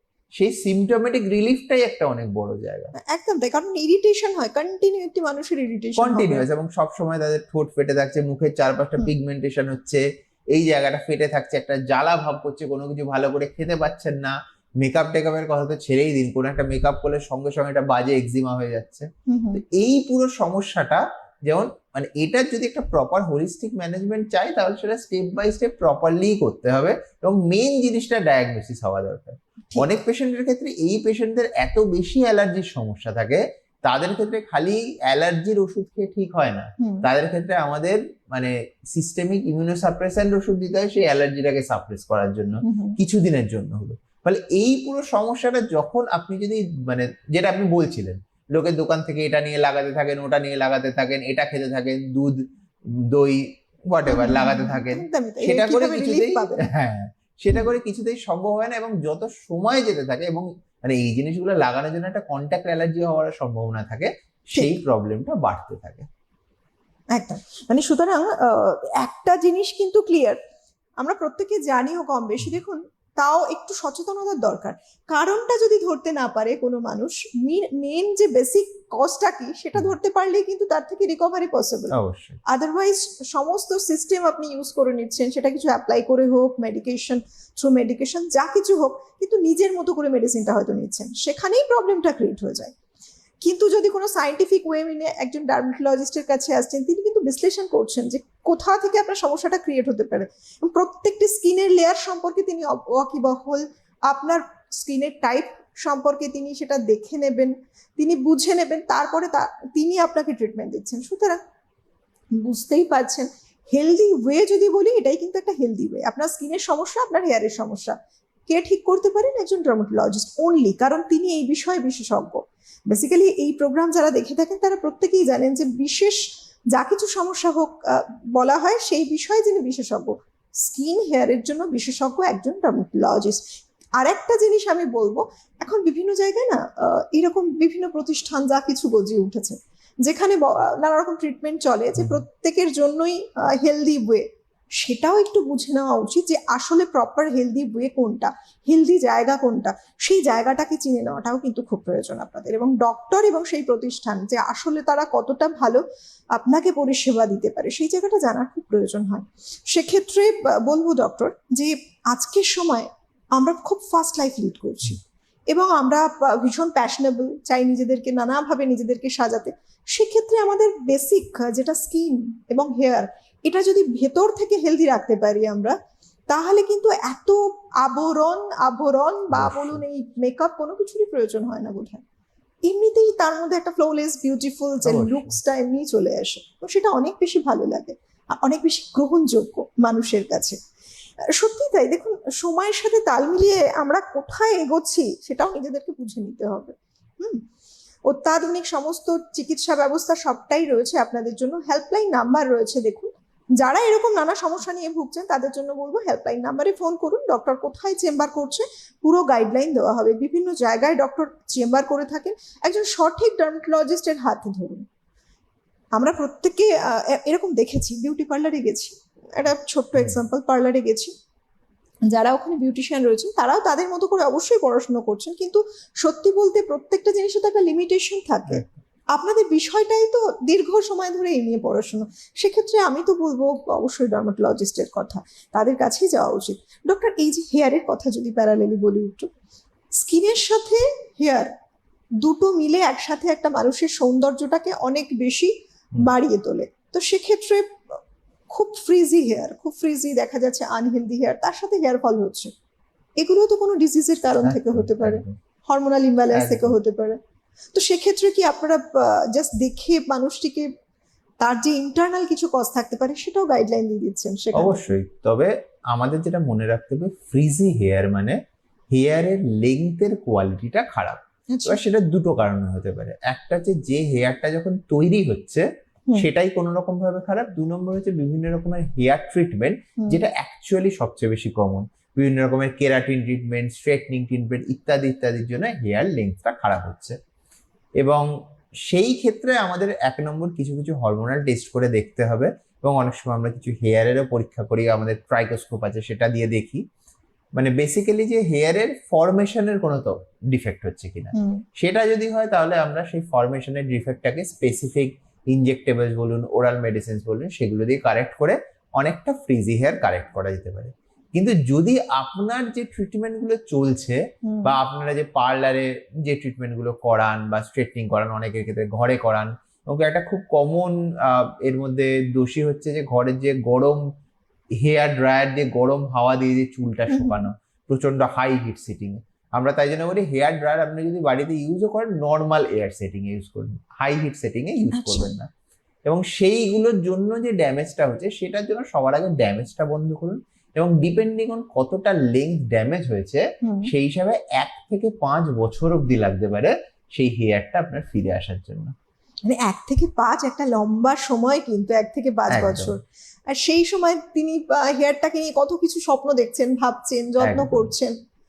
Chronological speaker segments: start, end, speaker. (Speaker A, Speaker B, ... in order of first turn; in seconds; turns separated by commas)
Speaker A: 0.3-2.9, Speaker B: 3.0-6.5, Speaker A: 6.0-52.5, Speaker B: 19.3-19.6, Speaker B: 29.7-30.0, Speaker B: 36.8-37.1, Speaker B: 42.6-43.0, Speaker A: 53.1-66.1, Speaker B: 54.1-56.6, Speaker B: 67.1-70.4, Speaker B: 71.0-82.0, Speaker A: 81.9-82.4, Speaker B: 82.5-92.7, Speaker B: 93.4-111.4, Speaker B: 112.4-118.0, Speaker B: 118.5-126.2, Speaker B: 126.7-133.4, Speaker B: 134.0-144.2, Speaker B: 144.8-155.8, Speaker B: 156.3-165.0, Speaker B: 165.5-175.7, Speaker B: 176.3-182.0, Speaker A: 179.3-179.8, Speaker B: 182.7-190.6, Speaker A: 184.8-185.4, Speaker B: 191.3-197.4, Speaker B: 198.1-214.8, Speaker B: 215.9-221.1, Speaker B: 222.1-228.6, Speaker B: 229.1-239.3, Speaker B: 239.9-241.5, Speaker B: 242.2-248.0, Speaker B: 248.5-252.5, Speaker B: 253.2-257.2, Speaker A: 254.3-255.3, Speaker A: 256.3-256.8, Speaker B: 257.7-260.7, Speaker B: 261.4-264.9, Speaker A: 264.5-268.4, Speaker A: 268.9-287.2, Speaker B: 271.5-271.8, Speaker A: 288.0-288.3, Speaker A: 288.8-296.8, Speaker A: 297.6-324.1, Speaker B: 301.3-301.6, Speaker B: 314.4-314.8, Speaker A: 324.8-335.5, Speaker B: 327.1-327.5, Speaker B: 334.9-335.3, Speaker A: 336.1-348.9, Speaker B: 343.6-343.9, Speaker B: 349.4-358.1, Speaker A: 352.5-352.9, Speaker A: 357.4-357.9